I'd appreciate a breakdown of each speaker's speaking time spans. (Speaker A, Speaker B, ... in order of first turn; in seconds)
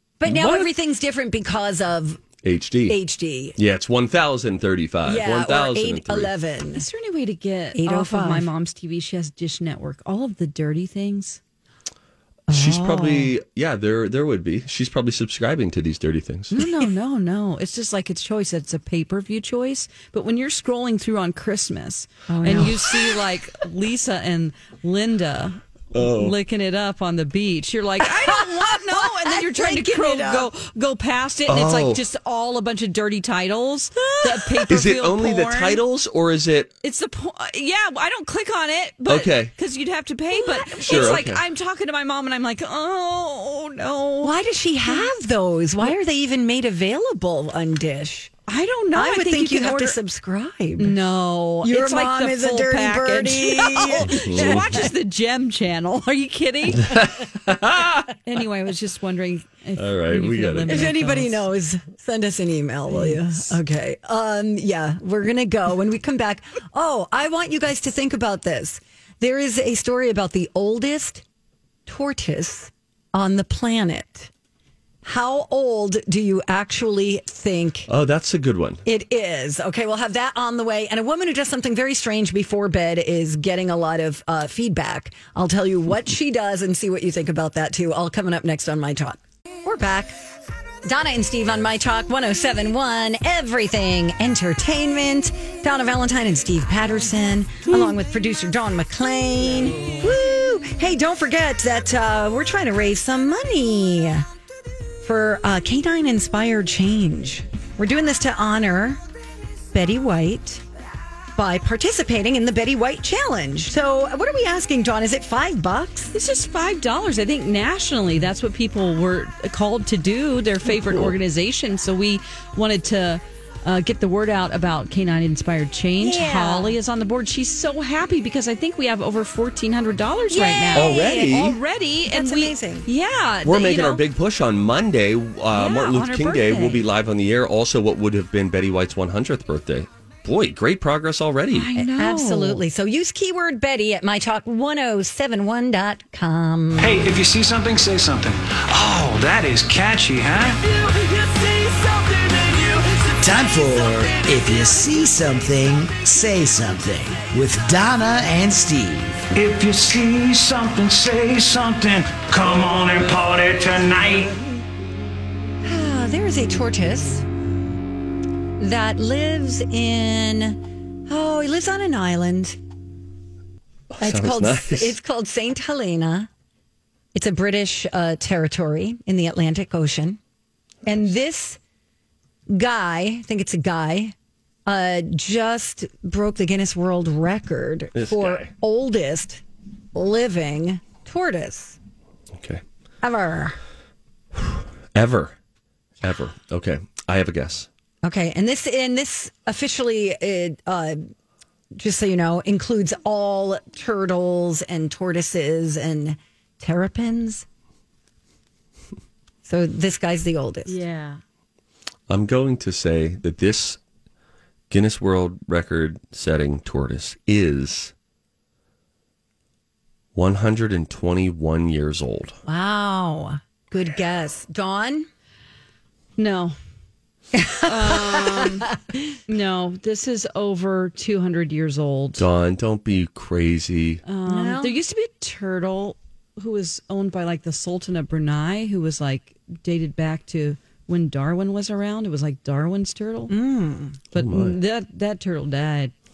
Speaker A: 0.2-2.2, 2.9-3.6, 5.0-6.8, 7.8-8.5, 12.5-13.3, 22.3-23.0, 28.2-30.5, 34.2-34.6, 40.3-41.2, 44.2-48.3, 49.0-51.0, 51.6-54.9, 60.7-71.2, 71.9-74.3, 75.0-77.9, 78.9-90.2, 90.8-104.3, 105.0-109.0, 109.7-110.6, 111.4-116.1, 126.0-126.8, 130.3-131.4, 132.1-132.9, 141.8-146.9, 165.6-167.2, 168.6-172.6, 174.0-176.3, 177.1-180.2, 180.8-181.6, 182.5-184.2, 184.7-189.4, 189.9-191.8, 193.0-193.6, 198.0-201.1, 201.8-207.4, 209.4-210.8, 222.5-225.1, 227.3-229.2, 234.3-234.8, 243.3-244.0
Speaker B: 0.2-0.7, 2.4-3.0, 3.6-6.3, 12.5-16.5, 25.9-26.3, 31.5-32.0, 34.7-36.7, 39.1-39.5, 40.8-41.4, 54.1-54.9, 56.8-58.1, 59.8-60.9, 77.9-78.8, 120.8-121.2, 130.7-131.6, 133.4-141.7, 173.9-175.0, 187.9-188.5, 192.3-192.6, 194.9-195.4, 196.0-197.7, 212.1-213.8, 214.7-217.9, 220.2-222.4, 232.2-234.0, 244.1-244.6
Speaker C: 6.8-11.4, 16.5-35.8, 36.8-45.1, 48.5-50.0, 50.8-57.0, 58.2-61.4, 62.9-63.6, 99.8-100.1, 116.1-134.0, 135.5-136.8, 141.5-142.6, 210.7-211.2, 226.2-226.6, 227.7-228.7, 229.3-232.2, 234.1-243.3, 244.1-245.9
Speaker D: 146.8-153.5, 159.3-164.4
Speaker E: 153.2-159.3